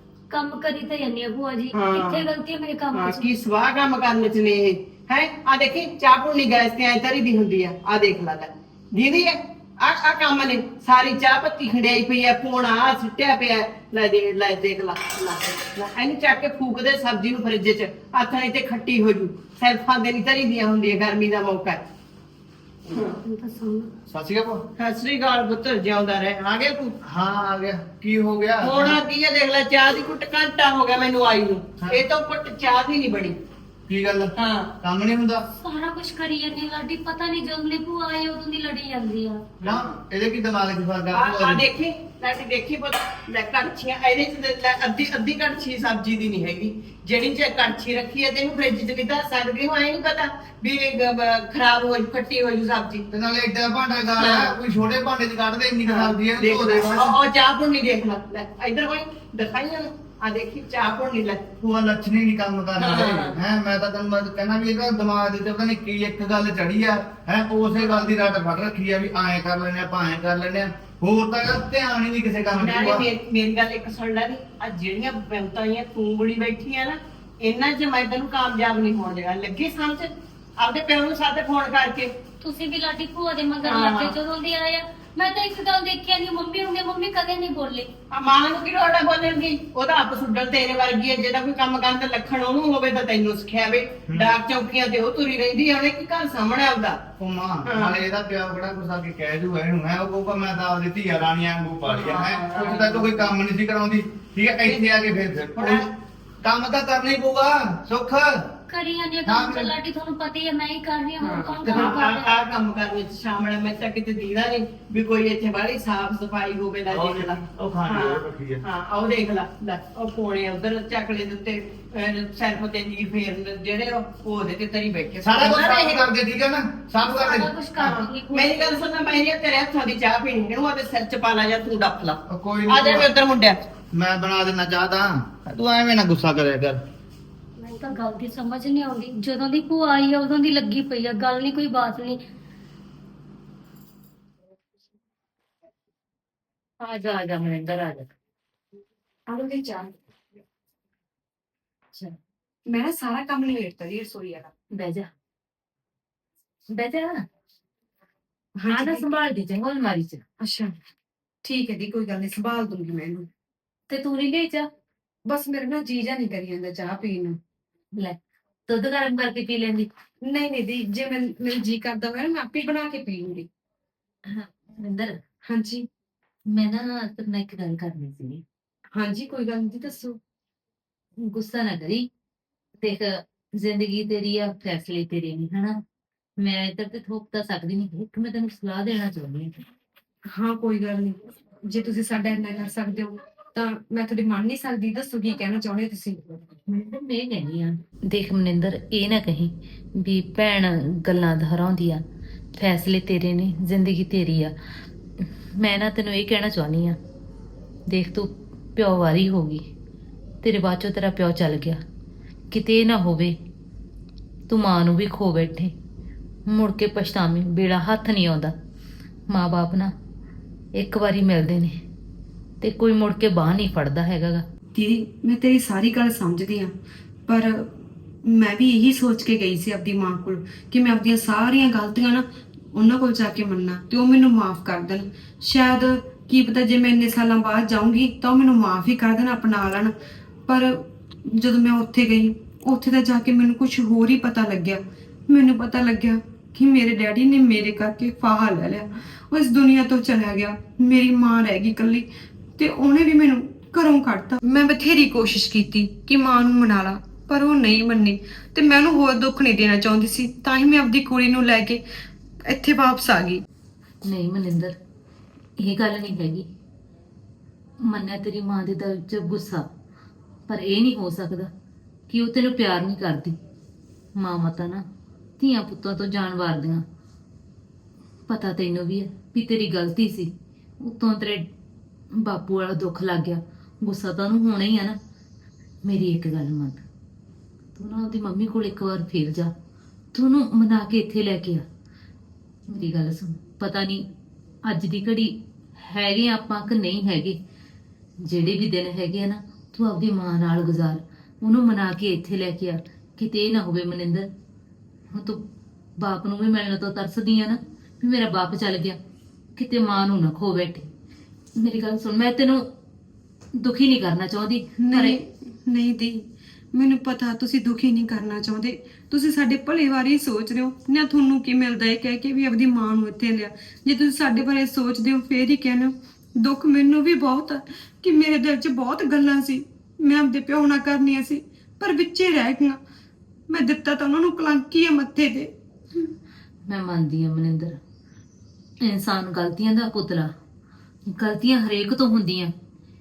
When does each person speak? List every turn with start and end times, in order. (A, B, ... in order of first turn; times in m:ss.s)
0:00.3-0:03.3 A
0:01.7-0:02.3 B
0:02.9-0:21.8 B
0:23.2-0:23.9 A
0:24.1-0:24.6 C
0:24.8-0:26.9 B
0:27.0-0:29.0 C
0:28.6-0:33.4 B
0:33.9-0:35.4 C
0:34.4-0:34.7 B
0:35.6-0:39.4 A
0:39.6-0:41.7 C
0:41.1-0:53.0 B
0:53.1-0:57.2 C
0:54.2-0:54.6 B
0:55.8-1:01.5 B
1:01.6-1:13.0 C
1:02.8-1:03.4 B
1:07.7-1:08.3 B
1:12.5-1:22.1 B
1:22.4-1:27.9 A
1:23.6-1:24.2 B
1:28.1-1:37.0 B
1:37.2-1:45.8 C
1:37.6-1:38.0 B
1:41.8-1:43.3 B
1:44.6-1:45.9 B
1:46.4-1:48.3 C
1:48.7-1:52.3 A
1:49.2-1:49.7 C
1:51.2-2:06.1 B
1:51.7-1:52.0 C
1:56.9-1:58.6 C
2:05.2-2:08.0 C
2:07.0-2:08.8 A
2:07.8-2:13.6 B
2:12.3-2:13.1 C
2:13.9-2:16.8 C
2:17.6-2:22.2 A
2:26.8-2:28.1 D
2:29.3-2:29.9 E
2:32.7-2:34.5 E
2:34.7-2:35.1 D
2:36.7-2:37.2 D
2:38.6-2:39.1 E
2:38.7-2:40.2 D
2:40.4-2:40.7 E
2:41.4-2:43.3 E
2:43.9-2:44.7 D
2:45.2-2:47.4 E
2:48.7-2:49.9 D
2:50.2-2:53.5 E
2:54.3-2:55.2 D
2:55.5-2:55.9 E
2:56.5-2:58.4 D
2:58.9-3:00.2 E
3:01.2-3:02.0 D
3:02.8-3:05.7 D
3:06.4-3:09.5 D
3:10.3-3:16.4 E
3:16.7-3:22.0 D
3:22.5-3:24.5 D
3:25.2-3:27.0 D
3:27.9-3:29.6 D
3:30.4-3:31.8 D
3:32.5-3:33.4 D
3:34.5-3:35.7 D
3:36.5-3:38.5 D
3:39.3-3:39.9 D
3:40.8-3:41.8 D
3:42.6-3:44.4 D
3:44.7-3:46.7 E
3:47.3-3:59.9 E
4:00.5-4:21.8 E
4:22.4-4:23.4 E
4:24.0-4:24.8 D
4:25.6-4:26.5 D
4:27.9-4:29.6 D
4:30.5-4:31.5 D
4:32.1-4:33.4 D
4:34.2-4:34.8 D
4:35.4-4:36.8 D
4:38.3-4:41.5 D
4:42.1-4:45.0 D
4:45.8-4:46.8 D
4:47.7-4:49.5 D
4:50.1-4:51.6 D
4:52.7-4:54.0 D
4:54.6-4:57.4 D
4:58.2-5:04.3 D
5:05.1-5:05.4 D
5:06.0-5:09.0 D
5:09.6-5:10.9 D
5:11.6-5:12.6 D
5:13.6-5:15.2 D
5:14.8-5:32.8 E
5:33.5-5:35.5 E
5:36.7-5:37.8 D
5:38.8-5:40.3 D
5:41.2-5:42.5 D